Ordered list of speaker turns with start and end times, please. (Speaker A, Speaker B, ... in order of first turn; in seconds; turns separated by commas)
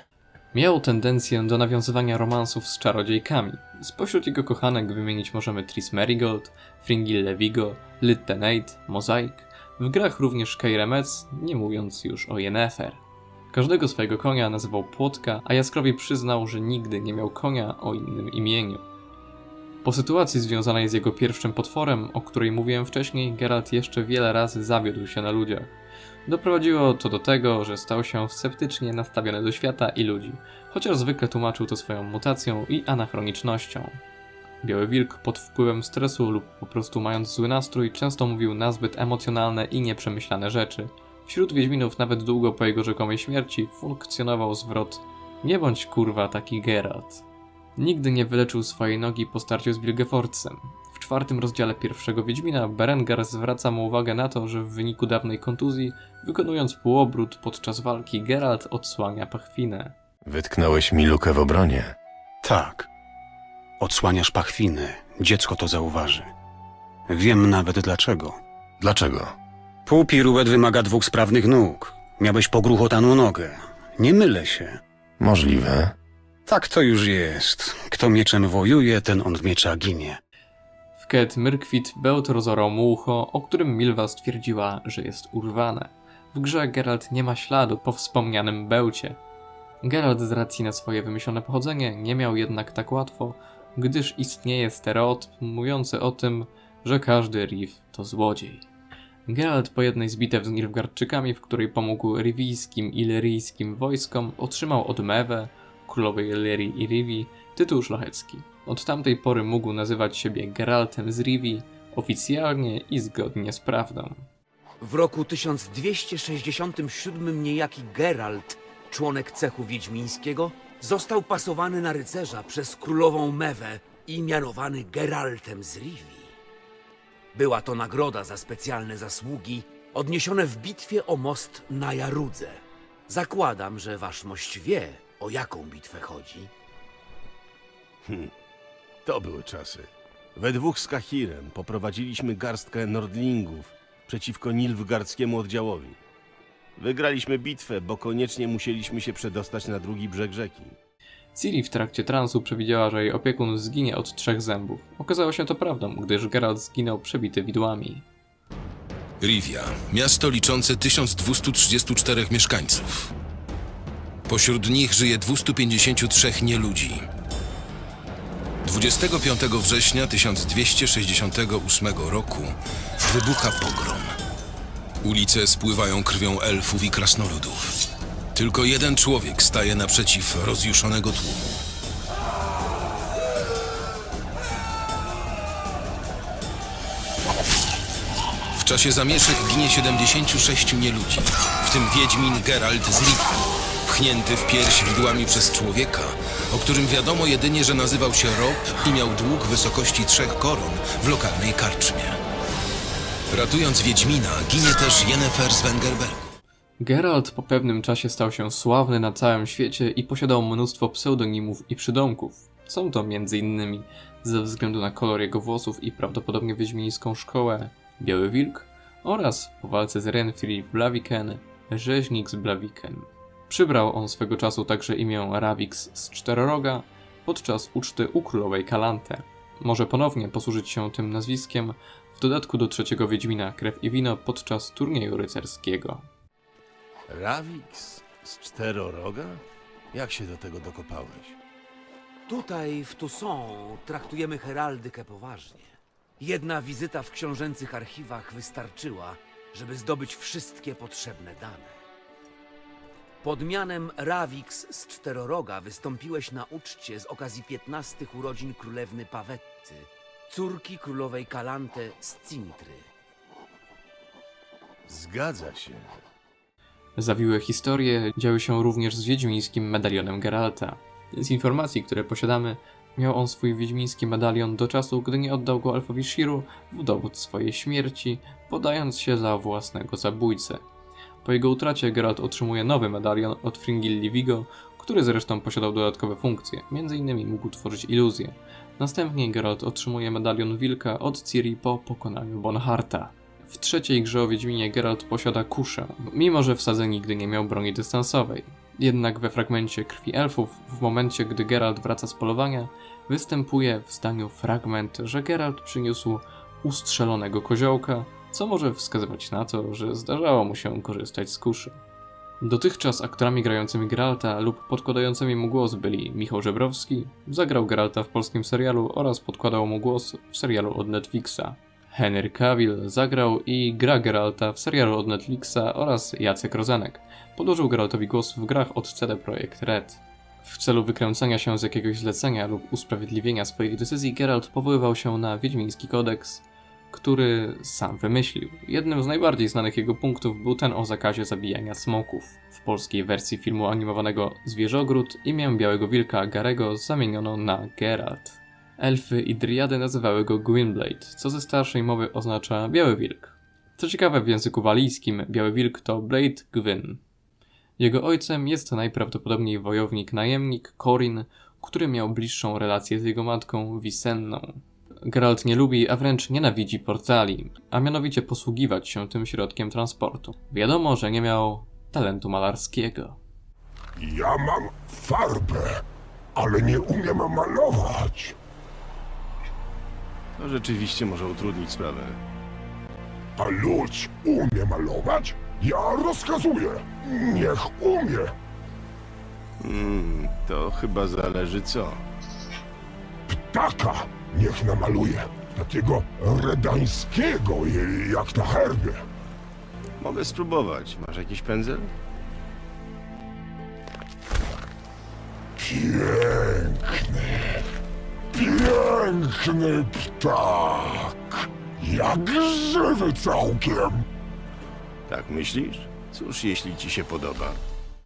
Speaker A: 0.5-18.8, Speaker A: 19.8-34.0, Speaker A: 34.6-47.2, Speaker A: 47.8-59.9, Speaker B: 60.2-61.9, Speaker C: 62.4-62.9, Speaker C: 63.8-66.3, Speaker C: 67.1-68.4, Speaker B: 68.8-69.3, Speaker C: 69.8-74.8, Speaker B: 75.2-75.9, Speaker C: 76.5-80.2, Speaker A: 81.0-89.2, Speaker A: 89.8-98.7, Speaker A: 99.2-114.3, Speaker D: 114.8-126.4, Speaker D: 127.3-136.5, Speaker E: 138.1-138.3, Speaker E: 139.0-146.0, Speaker E: 146.8-150.8, Speaker A: 151.3-158.0, Speaker F: 159.2-163.1, Speaker F: 164.3-167.1, Speaker F: 168.6-174.1, Speaker F: 175.0-177.8, Speaker F: 178.3-181.6, Speaker F: 188.6-193.3, Speaker F: 193.8-202.2, Speaker F: 203.3-206.2, Speaker A: 206.8-236.1, Speaker E: 237.1-241.4, Speaker D: 242.3-251.8, Speaker D: 253.2-262.9, Speaker E: 264.9-266.0, Speaker A: 267.0-280.6, Speaker A: 281.2-311.8, Speaker A: 312.4-357.0, Speaker A: 357.8-373.2, Speaker G: 374.0-375.8, Speaker G: 376.4-378.4, Speaker E: 380.4-382.2, Speaker G: 383.4-388.3, Speaker E: 389.6-392.0, Speaker G: 393.3-399.0, Speaker E: 400.0-401.9, Speaker G: 405.6-407.6, Speaker G: 408.3-414.1, Speaker E: 415.1-417.6